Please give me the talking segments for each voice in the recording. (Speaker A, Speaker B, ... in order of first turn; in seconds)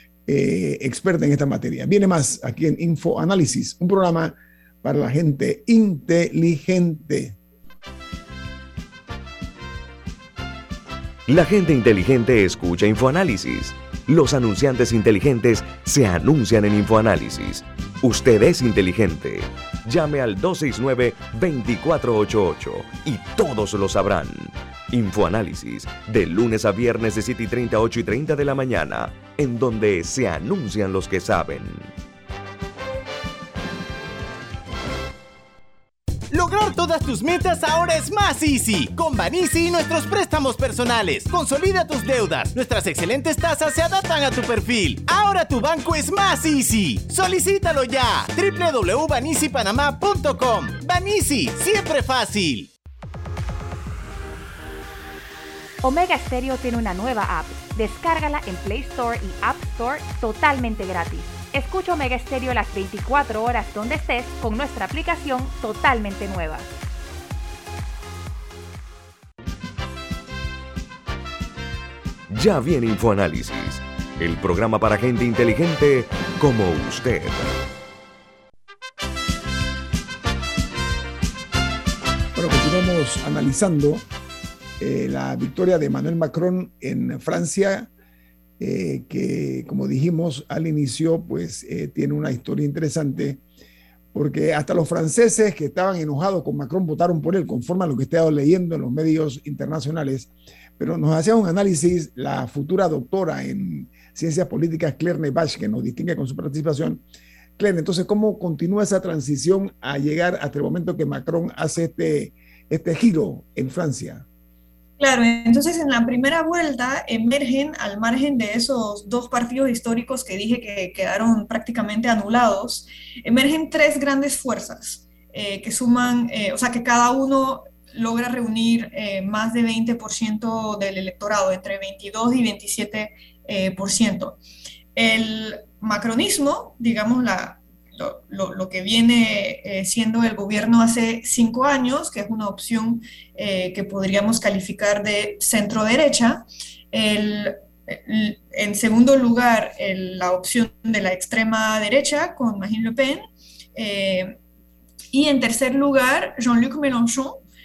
Speaker A: 0.3-7.4, 82.3-84.1, 84.8-87.9, 88.6-93.4, 94.1-107.0, 107.6-114.2
Speaker B: 11.3-31.9, 72.3-77.5
Speaker C: 36.3-52.7
Speaker D: 55.8-66.7
Speaker E: 115.0-134.4, 134.9-154.4, 155.1-157.4